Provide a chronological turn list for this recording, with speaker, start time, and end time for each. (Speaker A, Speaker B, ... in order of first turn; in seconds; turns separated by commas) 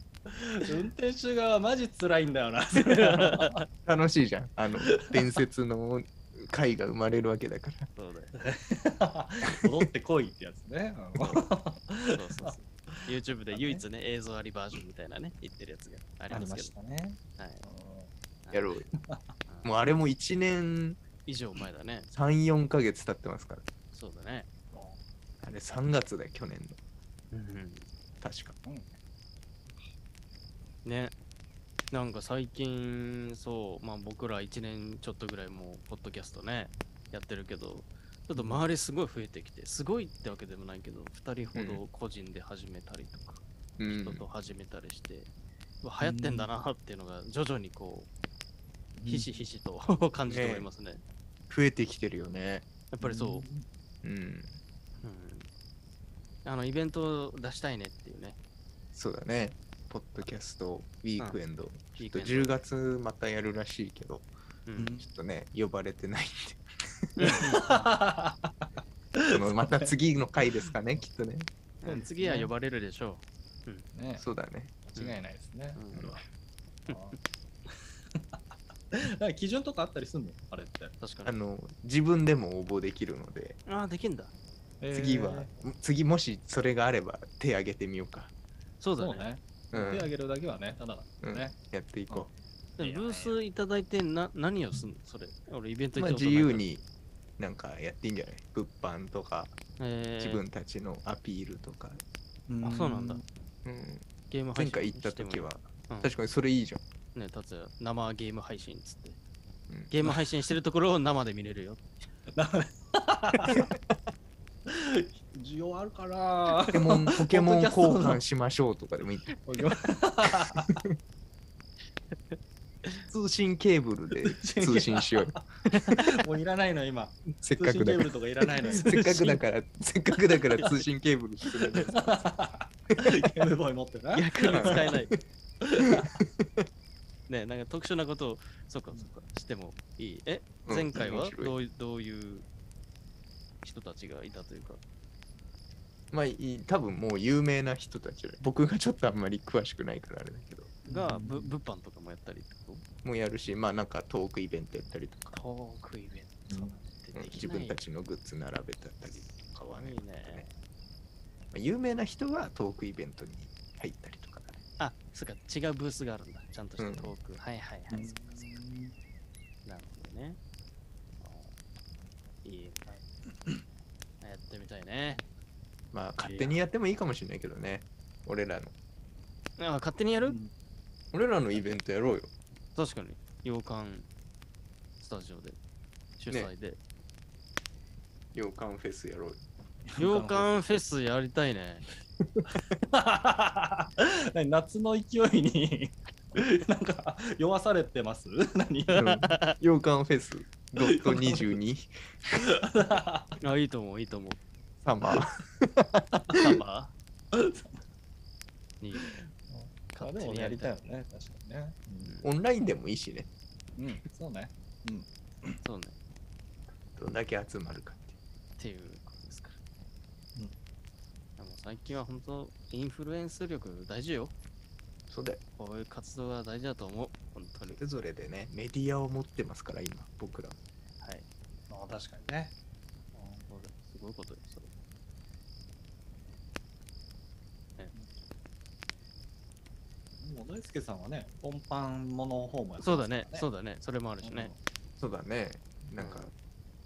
Speaker A: 0.3-3.6, Speaker B: 2.8-3.7, Speaker C: 3.9-7.9, Speaker A: 4.8-5.4, Speaker B: 8.0-8.3, Speaker A: 8.3-13.8, Speaker B: 11.2-11.5, Speaker B: 12.1-16.7, Speaker A: 16.3-18.1, Speaker B: 17.4-17.6, Speaker C: 18.5-18.9, Speaker A: 19.0-19.2, Speaker C: 19.6-21.0, Speaker B: 21.3-22.1, Speaker C: 22.1-23.6, Speaker B: 23.9-24.5, Speaker A: 24.7-25.0, Speaker C: 25.4-26.8, Speaker B: 27.3-27.9, Speaker C: 28.2-28.6, Speaker A: 28.6-28.9, Speaker B: 30.9-31.1, Speaker B: 31.9-45.3, Speaker C: 41.5-41.8, Speaker C: 43.8-44.2, Speaker B: 45.8-48.1, Speaker A: 46.0-46.5, Speaker A: 49.0-49.3, Speaker B: 49.1-51.0, Speaker C: 50.3-50.7, Speaker C: 51.5-52.7, Speaker B: 52.9-53.5, Speaker A: 53.0-53.6, Speaker C: 54.0-54.6, Speaker B: 55.0-55.5, Speaker B: 56.5-58.4, Speaker C: 58.9-64.3, Speaker B: 62.0-62.6, Speaker B: 64.7-64.9, Speaker A: 64.8-65.1, Speaker C: 65.0-67.5, Speaker B: 67.2-67.9, Speaker A: 67.3-68.5, Speaker A: 69.2-69.9, Speaker C: 69.3-71.5, Speaker B: 71.8-73.8, Speaker A: 71.8-72.5, Speaker A: 73.9-74.3, Speaker C: 74.2-74.7, Speaker A: 74.8-75.8, Speaker B: 75.8-76.2, Speaker C: 75.9-76.2, Speaker A: 76.9-78.4, Speaker A: 78.9-81.0, Speaker B: 81.0-81.3, Speaker C: 81.2-83.6, Speaker B: 83.7-84.3, Speaker A: 84.8-85.5, Speaker C: 84.9-88.3, Speaker B: 88.8-89.3, Speaker A: 89.0-91.5, Speaker C: 89.7-90.1, Speaker C: 91.2-92.3, Speaker A: 92.1-93.4, Speaker B: 92.8-96.6, Speaker C: 96.0-96.8, Speaker C: 97.4-99.5, Speaker B: 99.8-100.4, Speaker C: 100.2-102.0, Speaker A: 102.5-103.2, Speaker B: 102.6-103.2, Speaker C: 103.7-106.8, Speaker B: 104.3-106.1, Speaker B: 107.2-109.2, Speaker B: 109.9-112.1, Speaker A: 112.3-113.7, Speaker A: 114.7-118.2, Speaker C: 116.6-119.8, Speaker A: 119.6-120.7, Speaker C: 120.4-120.9, Speaker B: 122.3-123.0, Speaker C: 123.1-125.3, Speaker A: 124.2-128.9, Speaker B: 125.7-126.1, Speaker C: 127.4-128.1, Speaker B: 128.6-129.4, Speaker C: 128.6-132.3, Speaker B: 130.6-130.8, Speaker A: 131.8-135.0, Speaker C: 133.0-133.3, Speaker B: 134.1-135.1, Speaker C: 134.5-135.1, Speaker A: 135.6-136.2, Speaker C: 135.8-136.7, Speaker B: 137.3-142.5, Speaker C: 140.7-141.5, Speaker B: 143.6-144.8, Speaker C: 146.1-150.7, Speaker B: 150.8-152.8, Speaker A: 150.9-151.5, Speaker C: 153.0-155.4, Speaker B: 155.3-157.8, Speaker A: 156.5-156.8, Speaker C: 157.2-160.5, Speaker B: 159.7-160.5, Speaker C: 161.5-164.6, Speaker B: 164.8-168.4, Speaker C: 166.8-167.1, Speaker A: 167.9-168.9, Speaker B: 169.7-170.4, Speaker B: 171.2-171.6, Speaker B: 172.4-172.9, Speaker A: 172.9-173.6, Speaker B: 174.2-175.2, Speaker C: 175.9-178.7, Speaker B: 176.2-176.5, Speaker B: 179.6-180.4, Speaker A: 180.2-180.5, Speaker C: 181.1-182.3, Speaker B: 182.8-184.1, Speaker B: 185.0-185.6, Speaker B: 186.2-186.8, Speaker C: 188.3-189.4, Speaker A: 189.9-190.8, Speaker B: 190.0-191.8, Speaker A: 192.9-199.0, Speaker B: 198.9-199.6, Speaker C: 198.9-202.5, Speaker A: 200.8-201.5, Speaker A: 202.4-203.4, Speaker B: 203.4-204.4, Speaker C: 204.8-206.5, Speaker B: 206.3-206.9, Speaker A: 207.3-207.8, Speaker B: 208.8-209.3, Speaker A: 209.5-212.2, Speaker B: 209.9-210.7, Speaker C: 212.2-213.3, Speaker A: 213.8-215.6, Speaker B: 215.6-216.0, Speaker C: 216.9-218.2, Speaker B: 218.6-219.6, Speaker B: 221.4-224.3, Speaker C: 225.1-225.4, Speaker B: 225.6-227.8, Speaker C: 227.8-230.6, Speaker A: 231.7-232.5, Speaker B: 233.2-234.7, Speaker A: 240.2-243.5, Speaker B: 242.8-244.5, Speaker A: 244.2-244.6, Speaker C: 245.0-246.3, Speaker B: 246.0-246.3